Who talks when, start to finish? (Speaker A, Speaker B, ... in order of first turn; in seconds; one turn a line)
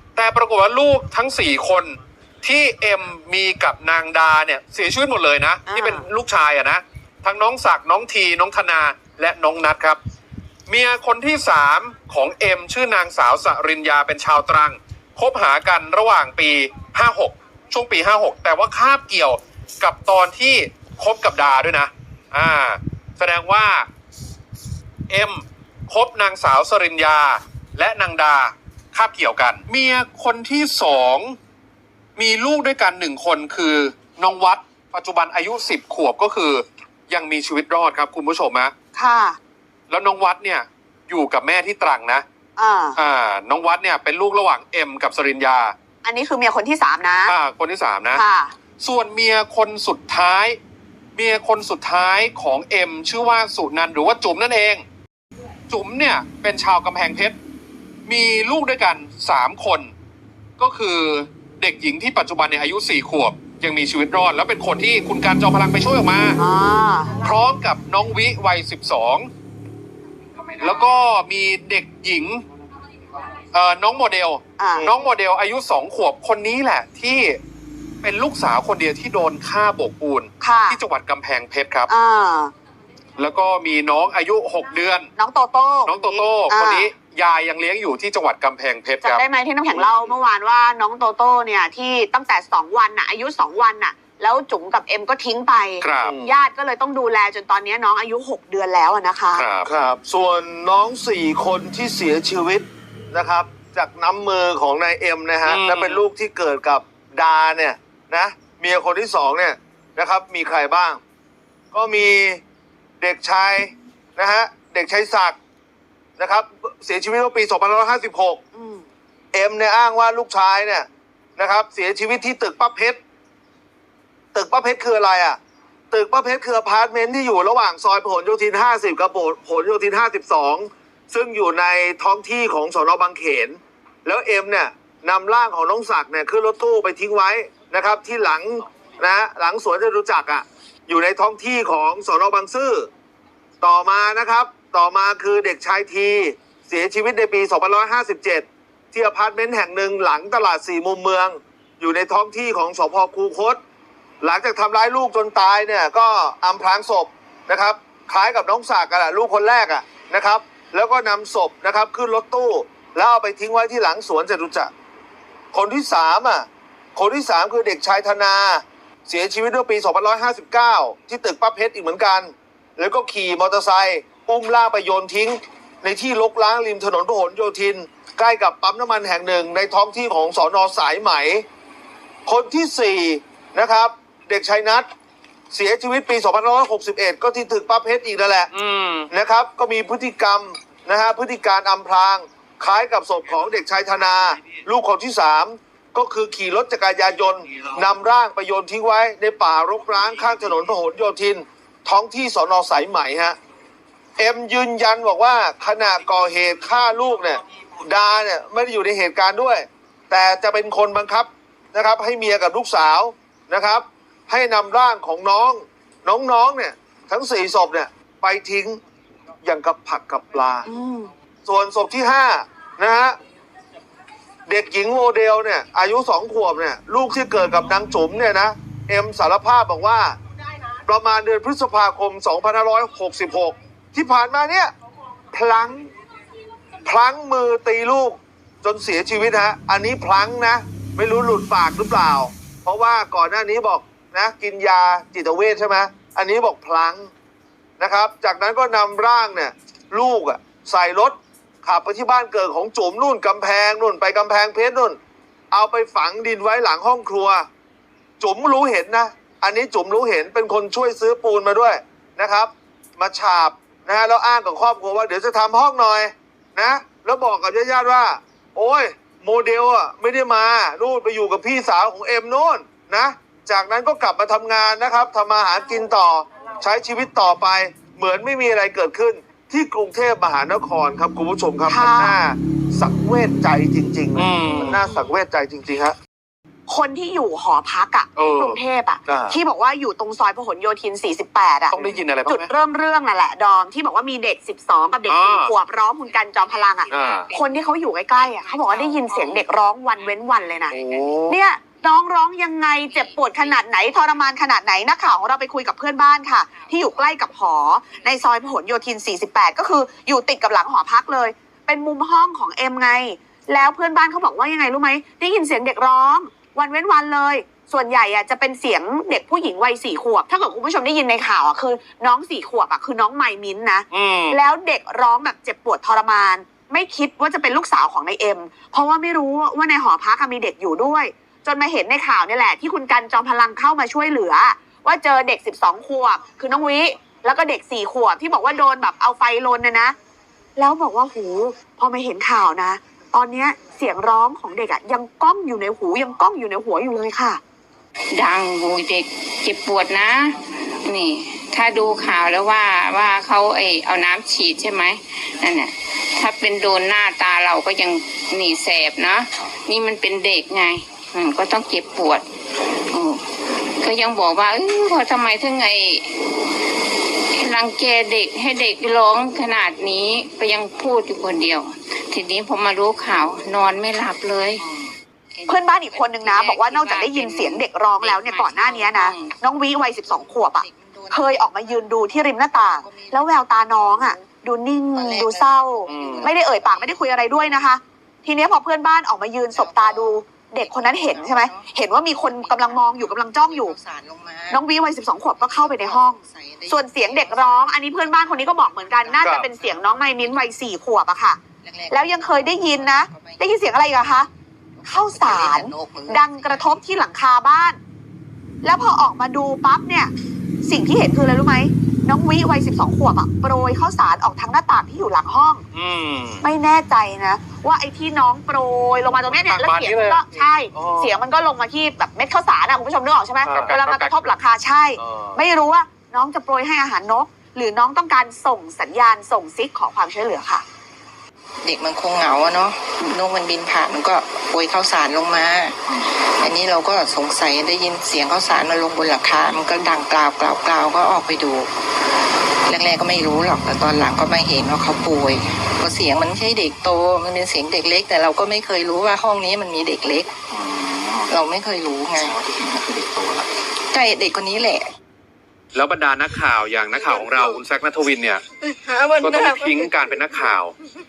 Speaker A: 0.1-10.0
Speaker B: 5.7-6.0
Speaker A: 10.7-23.9
Speaker A: 25.1-31.4
Speaker A: 32.2-38.7
Speaker B: 38.9-39.4
Speaker A: 39.9-42.2
Speaker B: 42.6-43.0
Speaker A: 43.0-45.7
Speaker B: 46.0-47.3
Speaker A: 47.2-48.2
Speaker B: 48.1-48.5
Speaker A: 48.8-50.6
Speaker A: 51.1-54.8
Speaker A: 55.7-57.4
Speaker A: 58.1-59.9
Speaker A: 60.6-66.4
Speaker B: 66.4-67.1
Speaker A: 67.2-69.3
Speaker A: 70.6-72.4
Speaker A: 73.5-77.4
Speaker B: 74.6-74.8
Speaker A: 78.0-81.9
Speaker B: 80.4-80.8
Speaker B: 81.9-82.5
Speaker A: 83.2-85.1
Speaker B: 85.2-86.6
Speaker A: 85.8-89.2
Speaker B: 89.0-99.4
Speaker A: 89.7-90.0
Speaker A: 95.8-96.2
Speaker C: 96.0-96.3
Speaker A: 99.3-99.7
Speaker C: 99.6-111.0
Speaker A: 105.5-106.0
Speaker C: 111.7-112.4
Speaker C: 113.0-115.3
Speaker C: 116.2-118.4
Speaker B: 118.5-118.8
Speaker C: 119.3-123.0
Speaker C: 124.3-125.4
Speaker C: 125.9-142.9
Speaker C: 143.6-153.6
Speaker C: 154.2-164.7
Speaker C: 165.5-181.4
Speaker C: 182.2-184.9
Speaker C: 185.5-188.5
Speaker A: 188.5-189.1
Speaker C: 189.1-203.4
Speaker C: 204.2-218.8
Speaker C: 219.4-220.7
Speaker B: 220.7-221.1
Speaker C: 221.4-223.2
Speaker C: 224.5-230.2
Speaker C: 230.9-234.7
Speaker C: 235.3-235.9
Speaker C: 236.8-247.1
Speaker C: 247.8-255.0
Speaker C: 255.5-257.4
Speaker C: 258.2-285.9
Speaker B: 281.7-282.1
Speaker A: 284.1-284.8
Speaker B: 286.7-300.8
Speaker A: 288.1-288.6
Speaker C: 289.1-289.4
Speaker A: 291.7-292.5
Speaker A: 295.1-295.5
Speaker D: 296.1-297.6
Speaker A: 296.9-297.3
Speaker D: 298.1-301.1
Speaker A: 300.7-301.4
Speaker B: 301.3-339.9
Speaker D: 302.8-303.7
Speaker D: 306.5-306.8
Speaker A: 323.9-324.4
Speaker B: 340.6-347.4
Speaker D: 348.1-362.2
Speaker D: 362.9-363.2
Speaker D: 363.8-366.2
Speaker D: 367.4-374.6
Speaker D: 375.3-379.4
Speaker B: 375.5-393.7
Speaker E: 379.7-384.3
Speaker E: 384.9-387.7
Speaker A: 385.9-386.3
Speaker E: 389.5-400.6
Speaker B: 394.5-396.2
Speaker B: 396.7-401.4
Speaker A: 399.2-399.5
Speaker E: 401.6-406.8
Speaker B: 401.9-404.2
Speaker B: 404.9-407.8
Speaker B: 408.6-410.1
Speaker B: 410.6-415.6
Speaker A: 415.7-416.4
Speaker B: 416.4-430.6
Speaker A: 419.3-421.1
Speaker A: 423.5-424.3
Speaker A: 424.9-425.4
Speaker E: 431.6-441.7
Speaker E: 442.7-453.0
Speaker E: 453.9-454.9
Speaker A: 455.7-458.4
Speaker E: 458.8-459.8
Speaker A: 459.2-460.7